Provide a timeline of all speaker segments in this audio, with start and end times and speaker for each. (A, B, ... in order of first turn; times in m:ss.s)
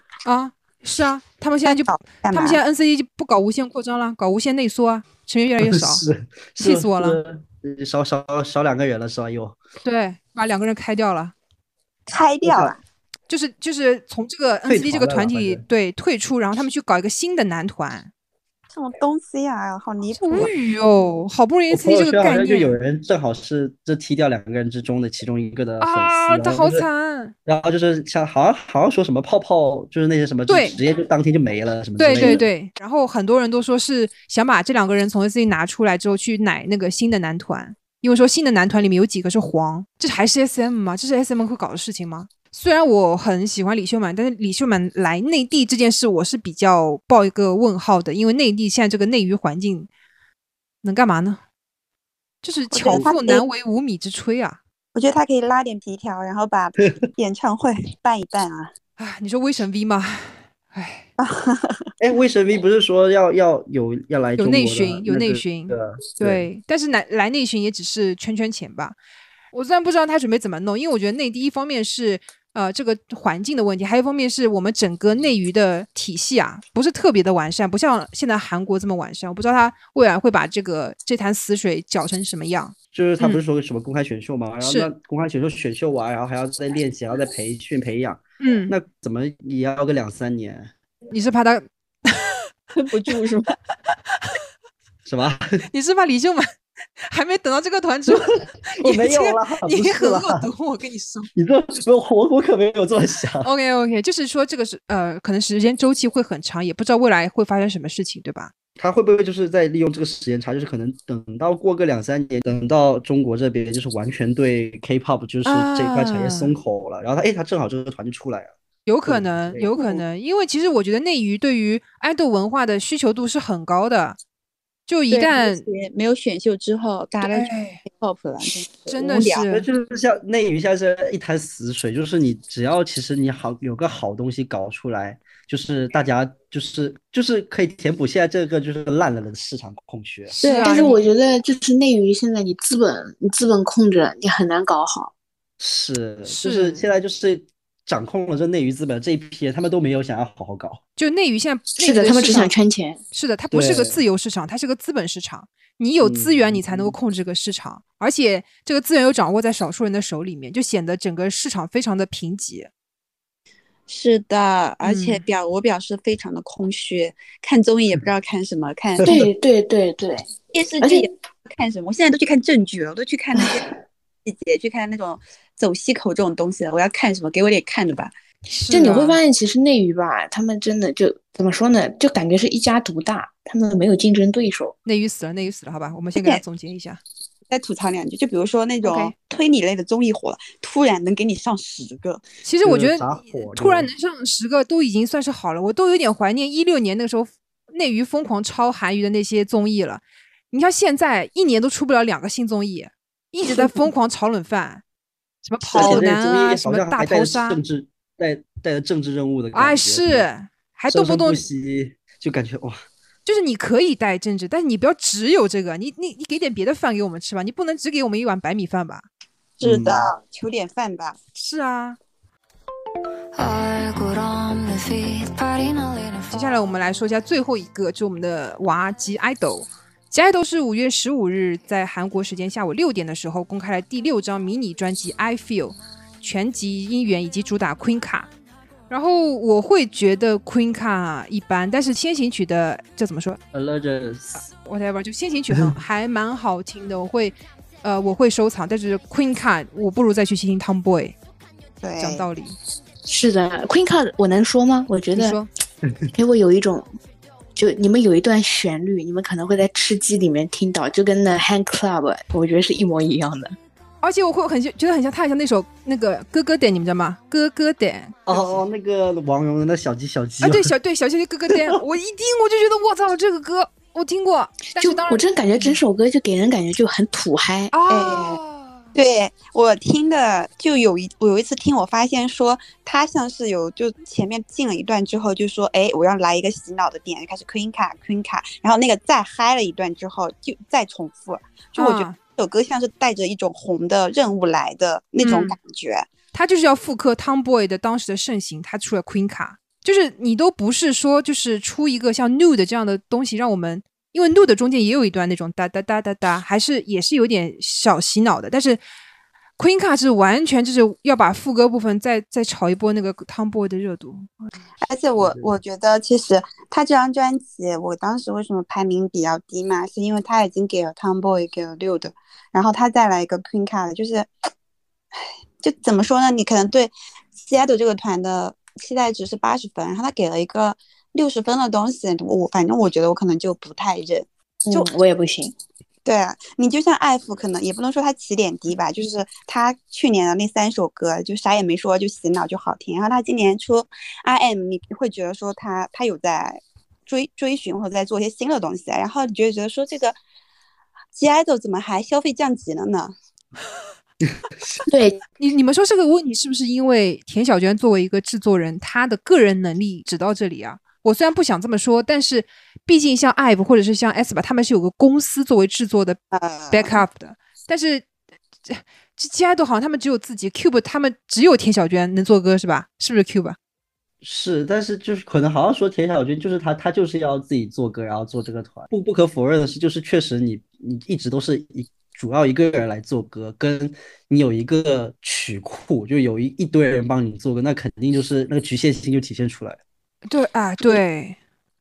0:00.2-0:06.1 A
0:01.6-0:02.6 B
0:05.6-0:09.6 C
0:06.6-0:07.2 A
0:09.8-0:11.3 A
0:12.1-0:12.8 B
0:12.4-0:12.8 C
0:13.3-0:18.1 A
0:14.7-0:15.6 C
0:18.7-0:20.5 B
0:20.2-0:22.8 A
0:21.7-0:26.9 C
0:25.8-0:27.3 A
0:27.5-0:32.5 C
0:30.5-0:30.8 A
0:32.0-0:49.9 A
0:50.8-0:51.4 A
0:52.4-0:54.6 A
0:52.7-0:53.4 B
0:55.0-0:58.7 B
0:59.0-1:01.1 A
1:01.2-1:01.9 B
1:02.0-1:06.5 C
1:04.4-1:09.0 A
1:09.5-1:23.4 A
1:22.9-1:30.7 C
1:24.6-1:24.9 A
1:28.4-1:28.8 A
1:31.1-1:32.4 A
1:32.8-1:33.5 B
1:35.1-1:35.7 C
1:35.7-1:36.5 A
1:37.0-1:41.3 A
1:38.1-1:40.5 C
1:41.4-1:43.5 C
1:43.4-1:48.5 A
1:48.8-1:58.5 C
1:55.4-1:56.6 A
1:58.9-2:04.2 A
1:59.1-2:00.0 C
2:04.9-2:05.7 A
2:05.1-2:09.4 B
2:07.2-2:07.8 A
2:08.9-2:09.7 A
2:09.4-2:20.3 C
2:20.3-2:21.0 A
2:20.4-2:25.1 D
2:25.6-2:30.8 C
2:26.2-2:26.9 A
2:31.0-2:32.5 A
2:31.8-2:33.0 D
2:33.1-2:42.7 A
2:33.5-2:34.0 C
2:36.0-2:37.0 C
2:43.9-2:49.2 B
2:44.8-2:45.2 A
2:49.0-2:49.3 C
2:49.0-2:51.1 D
2:50.5-2:58.1 B
2:58.5-2:59.2 A
2:58.7-3:04.8 D
3:04.9-3:07.0 A
3:07.5-3:12.2 B
3:08.8-3:09.1 A
3:12.4-3:24.8 A
3:12.6-3:13.9 C
3:25.4-3:27.6 A
3:25.7-3:30.3 C
3:25.7-3:26.1 B
3:29.5-3:31.4 A
3:30.9-3:32.8 C
3:33.3-3:39.1 A
3:39.6-3:41.2 B
3:39.6-3:40.1 C
3:41.4-3:42.0 A
3:43.3-3:46.6 E
3:46.3-3:58.3 A
3:58.9-4:03.4 A
4:03.5-4:04.5 C
4:04.6-4:11.2 A
4:05.5-4:05.8 C
4:11.8-4:12.3 B
4:12.0-4:12.6 A
4:13.1-4:15.4 D
4:15.1-4:15.5 A
4:16.1-4:16.9 D
4:17.6-4:23.6 D
4:24.0-4:28.6 A
4:28.3-4:30.7 C
4:30.4-4:35.8 A
4:31.5-4:31.8 C
4:34.8-4:37.8 D
4:37.7-4:38.8 A
4:37.9-4:38.4 B
4:39.0-4:56.1 B
4:51.8-4:52.2 A
4:55.2-4:55.6 A
4:56.3-5:08.8 A
5:09.6-5:14.5 A
5:14.8-5:24.3 B
5:15.2-5:15.5 C
5:25.6-5:34.9 B
5:34.6-5:35.6 D
5:36.0-5:50.2 B
5:51.2-5:53.1 B
5:54.9-5:55.2 D
5:55.4-6:06.2 A
6:06.3-6:07.0 B
6:06.7-6:08.1 A
6:08.7-6:13.6 A
6:14.2-6:29.8 C
6:30.3-6:31.4 A